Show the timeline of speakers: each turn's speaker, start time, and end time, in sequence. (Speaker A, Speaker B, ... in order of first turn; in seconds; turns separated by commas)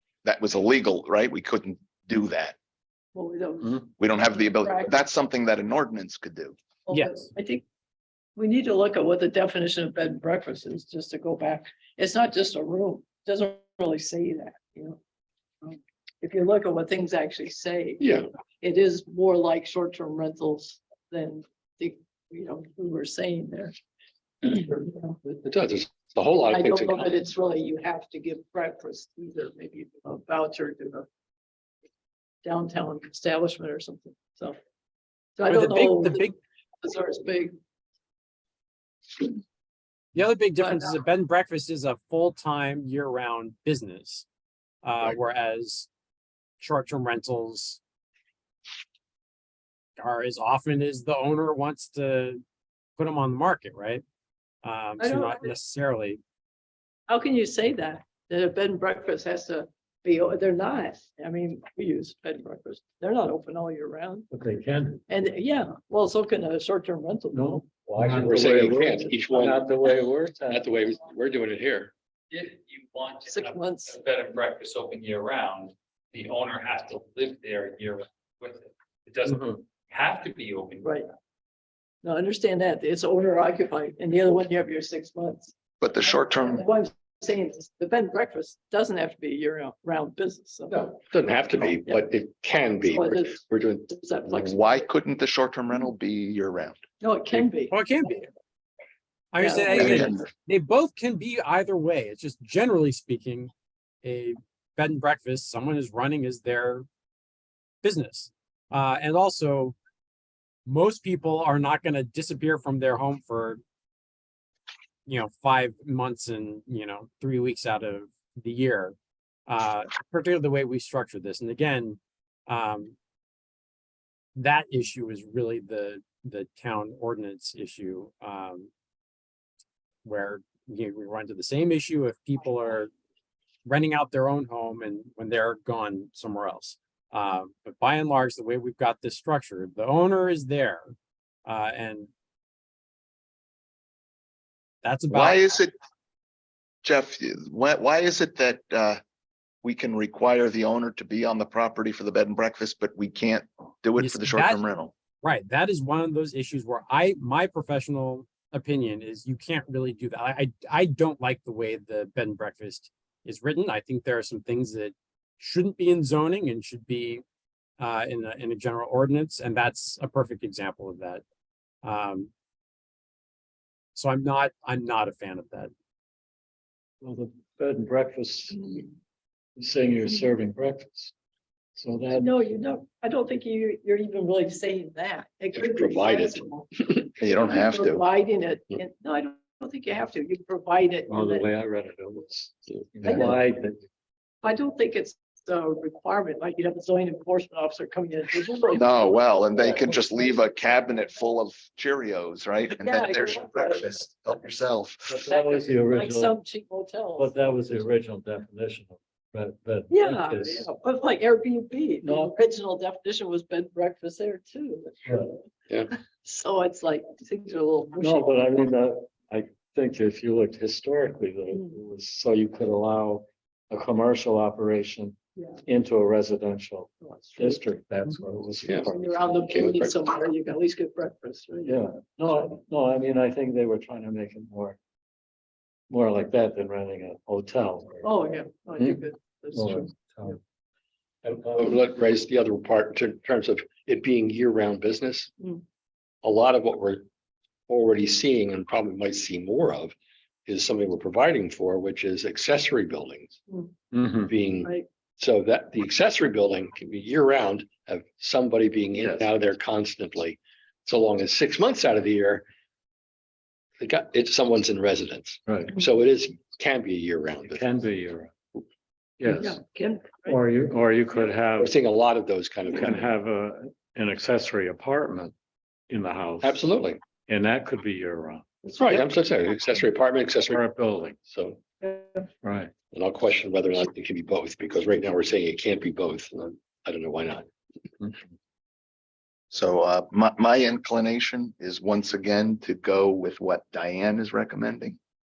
Speaker A: 0.2-2.5, Speaker B: 3.1-4.9, Speaker A: 4.0-6.5, Speaker B: 6.9-7.6, Speaker C: 6.9-7.3, Speaker B: 8.3-15.0, Speaker B: 15.6-23.7, Speaker D: 18.0-18.3, Speaker B: 24.4-25.2, Speaker D: 25.2-27.1, Speaker B: 26.5-31.1, Speaker B: 32.4-34.6, Speaker B: 35.4-37.5, Speaker C: 35.5-36.3, Speaker C: 40.1-44.2, Speaker B: 40.6-41.0, Speaker C: 44.8-45.9, Speaker C: 46.6-47.8, Speaker C: 50.0-52.4, Speaker C: 53.0-54.0, Speaker C: 54.6-56.2, Speaker B: 55.0-55.5, Speaker B: 57.1-64.3, Speaker E: 64.3-65.0, Speaker B: 65.1-67.4, Speaker E: 67.3-70.7, Speaker D: 68.1-69.7, Speaker D: 70.5-71.9, Speaker F: 72.3-81.0, Speaker B: 73.2-74.0, Speaker B: 82.0-85.5, Speaker A: 85.8-86.6, Speaker B: 86.4-90.8, Speaker D: 90.7-93.9, Speaker B: 92.8-94.6, Speaker A: 94.3-96.8, Speaker B: 97.0-97.7, Speaker C: 97.7-98.3, Speaker C: 99.3-103.5, Speaker B: 99.4-100.1, Speaker A: 99.7-100.2, Speaker C: 104.0-106.8, Speaker C: 107.8-109.8, Speaker C: 110.7-113.6, Speaker C: 115.0-118.9, Speaker C: 119.5-122.9, Speaker C: 124.3-128.7, Speaker C: 130.0-132.9, Speaker C: 133.6-140.9, Speaker C: 141.4-142.1, Speaker C: 144.8-145.5, Speaker A: 145.1-145.7, Speaker A: 146.8-149.0, Speaker A: 149.6-154.9, Speaker C: 154.0-154.6, Speaker C: 155.2-167.2, Speaker C: 167.8-171.2, Speaker C: 171.8-172.3, Speaker C: 173.9-175.7, Speaker E: 177.0-178.9, Speaker E: 179.6-181.1, Speaker E: 181.8-182.4, Speaker B: 182.1-186.7, Speaker D: 185.5-187.1, Speaker A: 187.2-188.0, Speaker B: 187.3-191.5, Speaker E: 191.1-193.8, Speaker B: 193.0-193.4, Speaker B: 194.4-199.1, Speaker A: 198.7-205.2, Speaker B: 202.8-203.9, Speaker E: 205.0-206.3, Speaker B: 205.2-207.3, Speaker E: 207.2-210.7, Speaker B: 209.9-215.4, Speaker E: 212.0-212.3, Speaker B: 216.2-218.4, Speaker E: 218.0-229.4, Speaker B: 227.0-227.6, Speaker B: 228.9-231.8, Speaker D: 229.5-229.9, Speaker E: 231.6-234.8, Speaker E: 235.9-238.1, Speaker B: 238.0-239.9, Speaker E: 239.5-240.4, Speaker E: 241.2-241.9, Speaker D: 241.6-245.3, Speaker D: 246.2-247.0, Speaker D: 247.7-249.9, Speaker D: 250.4-253.4, Speaker E: 253.9-254.4, Speaker D: 254.3-262.4, Speaker E: 259.0-259.3, Speaker D: 263.8-267.6, Speaker E: 265.4-265.8, Speaker E: 267.5-268.3, Speaker E: 269.2-269.6, Speaker B: 269.3-270.4, Speaker E: 270.2-271.8, Speaker D: 271.6-273.1, Speaker E: 272.7-275.3, Speaker E: 275.9-279.1, Speaker D: 276.4-277.0, Speaker D: 278.7-280.6, Speaker E: 280.4-281.3, Speaker D: 281.3-281.6, Speaker E: 282.4-282.7, Speaker D: 282.9-287.5, Speaker A: 289.5-295.0